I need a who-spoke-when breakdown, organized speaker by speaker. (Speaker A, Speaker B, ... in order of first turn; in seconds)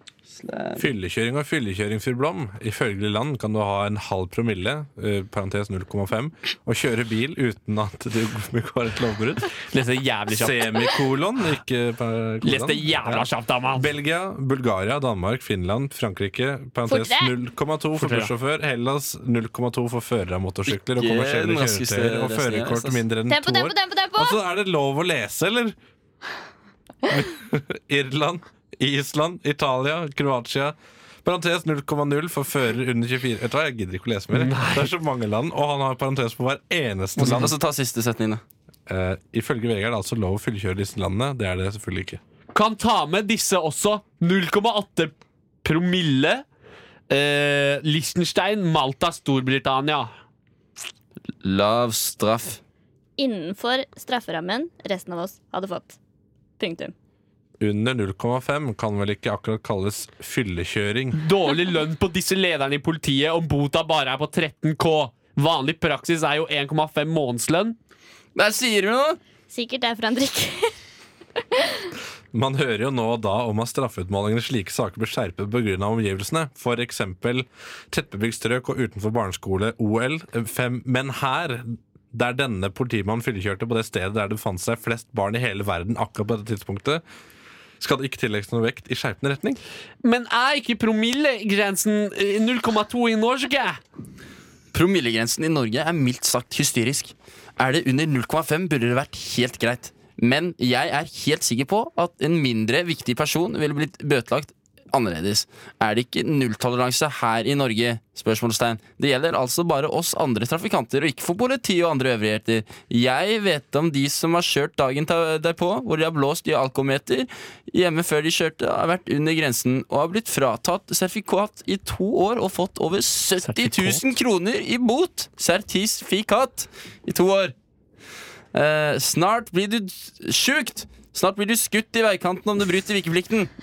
Speaker A: 0.3-0.9, 20.7-23.0, 37.2-38.4, 51.4-52.6, 68.3-69.2, 94.7-127.5, 128.5-133.5
Speaker B: 0.8-9.5, 10.3-25.8, 27.1-37.5, 38.9-42.2, 57.6-61.2, 72.3-87.0, 87.8-89.6
Speaker C: 9.7-10.7, 12.4-13.9, 18.0-18.3, 34.3-34.9, 42.5-46.4, 47.1-50.1, 61.1-67.8, 90.0-93.8, 123.4-124.0
Speaker D: 16.9-17.3, 23.3-24.4, 53.2-56.0, 56.6-56.9, 69.5-70.7, 71.5-71.8